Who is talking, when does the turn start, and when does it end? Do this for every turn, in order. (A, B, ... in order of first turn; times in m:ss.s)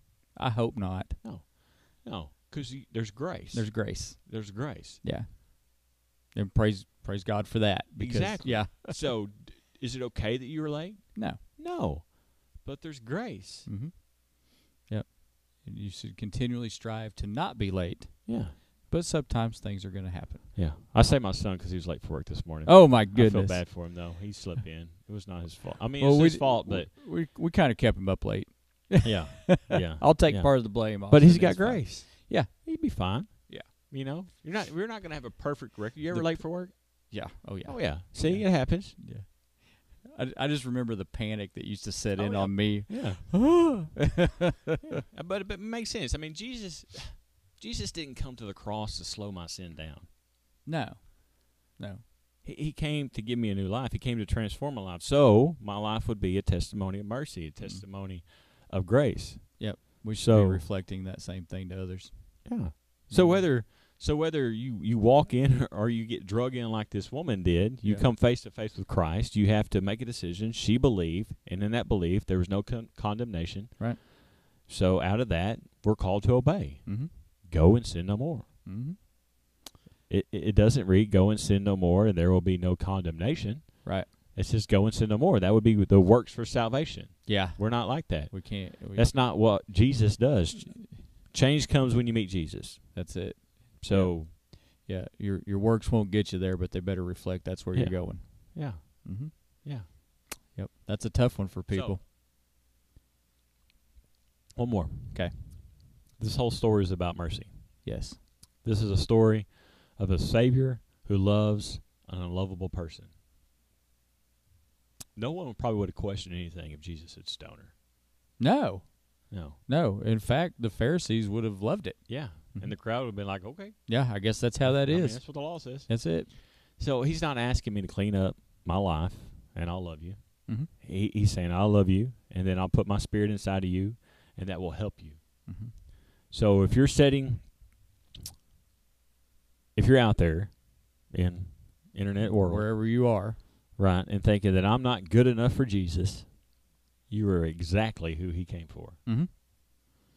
0:00.3-0:01.2 A
0:01.2-0:05.0 B
0:03.5-0:09.0 A
0:08.0-0:13.7 B
0:11.1-0:11.4 A
0:13.6-0:20.4 A
0:18.2-0:18.5 B
0:20.6-0:26.9 B
0:22.6-0:24.1 A
0:26.0-0:32.6 A
0:29.0-0:39.0 B
0:36.1-0:44.8 A
0:42.2-0:43.7 B
0:44.8-0:50.1 B
0:50.6-0:52.0 A
0:52.4-1:00.6 B
0:59.6-1:03.5 A
1:02.4-1:14.1 B
1:14.6-1:18.5 B
1:18.6-1:19.0 A
1:20.1-1:33.1 B
1:23.8-1:24.1 A
1:27.2-1:29.1 A
1:32.9-1:42.0 A
1:33.8-1:34.3 B
1:37.7-1:39.8 B
1:41.7-1:42.0 B
1:44.5-1:45.6 B
1:45.1-1:45.4 A
1:46.2-1:48.0 B
1:47.8-1:48.2 A
1:48.6-1:53.1 B
1:55.1-1:57.7 B
1:58.4-2:02.8 A
1:59.3-1:59.6 B
2:02.1-2:04.0 B
2:03.9-2:06.3 A
2:04.6-2:15.4 B
2:15.4-2:15.7 A
2:16.3-2:17.5 B
2:19.7-2:23.0 B
2:22.2-2:23.4 A
2:23.8-2:26.5 B
2:27.1-2:29.0 B